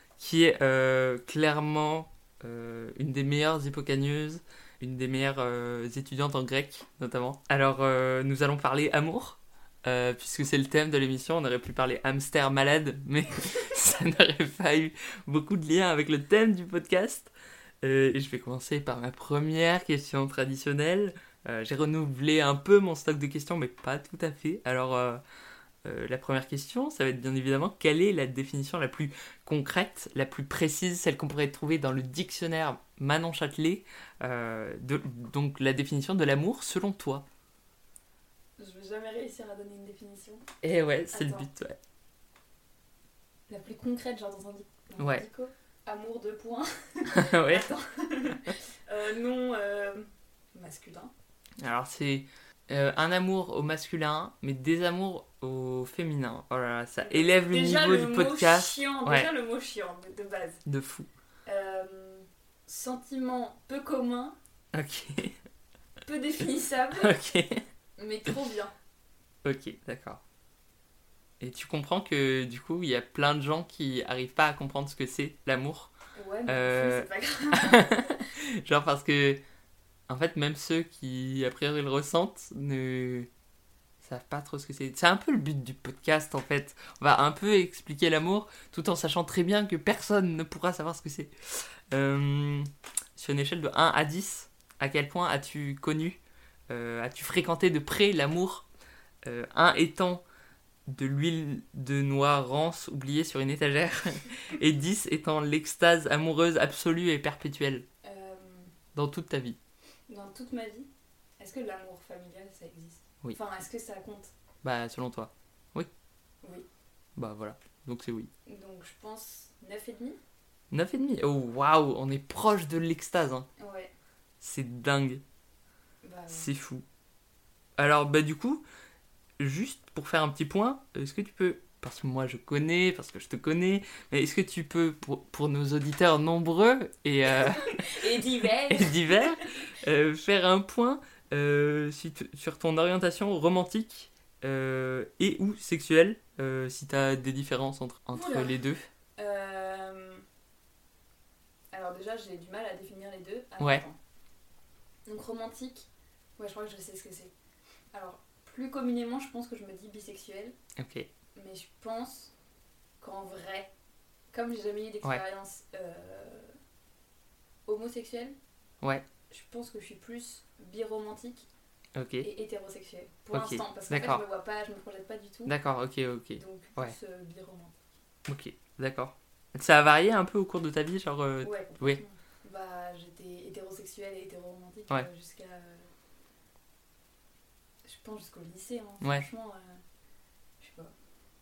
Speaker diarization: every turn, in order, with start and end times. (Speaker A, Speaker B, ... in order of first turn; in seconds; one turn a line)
Speaker A: 0.2-17.3
Speaker A: 17.8-25.2
Speaker A: 25.8-37.2
Speaker B: 38.6-40.4
Speaker A: 40.6-41.8
Speaker B: 41.1-41.5
Speaker B: 43.5-51.1
Speaker A: 45.0-45.2
Speaker A: 47.1-47.6
Speaker A: 51.6-59.3
Speaker B: 57.0-60.6
Speaker A: 60.6-61.1
Speaker B: 61.5-64.3
Speaker A: 64.7-65.4
Speaker B: 66.0-67.1
Speaker A: 67.0-67.6
Speaker B: 68.0-68.7
Speaker A: 69.4-70.2
Speaker A: 71.4-75.9
Speaker B: 76.1-78.3
Speaker A: 76.5-79.4
Speaker A: 80.1-83.3
Speaker A: 84.0-98.7
Speaker A: 99.2-100.2
Speaker A: 100.9-107.8
Speaker B: 108.0-108.7
Speaker A: 108.9-109.6
Speaker B: 110.1-114.3
Speaker A: 114.6-115.9
Speaker A: 117.2-118.3
Speaker B: 118.5-120.2
Speaker A: 120.7-123.5
Speaker B: 123.6-123.9
Speaker A: 124.4-125.2
Speaker B: 126.0-126.5
Speaker A: 126.3-126.8
Speaker A: 127.8-128.6
Speaker A: 129.4-138.0
Speaker B: 137.3-139.5
Speaker A: 138.7-148.9
Speaker B: 148.1-148.6
Speaker B: 149.2-150.2
Speaker B: 151.7-154.0
Speaker B: 155.1-157.3
Speaker B: 157.9-160.6
Speaker A: 160.8-161.1
Speaker B: 161.3-162.3
Speaker B: 163.0-163.7
Speaker B: 164.3-166.5
Speaker B: 167.7-168.3
Speaker B: 169.3-171.5
Speaker A: 171.9-172.3
Speaker B: 172.2-175.6
Speaker A: 173.3-174.2
Speaker A: 175.5-176.9
Speaker B: 176.3-177.9
Speaker A: 178.2-182.0
Speaker B: 181.4-185.9
Speaker B: 187.8-189.8
Speaker B: 190.6-190.9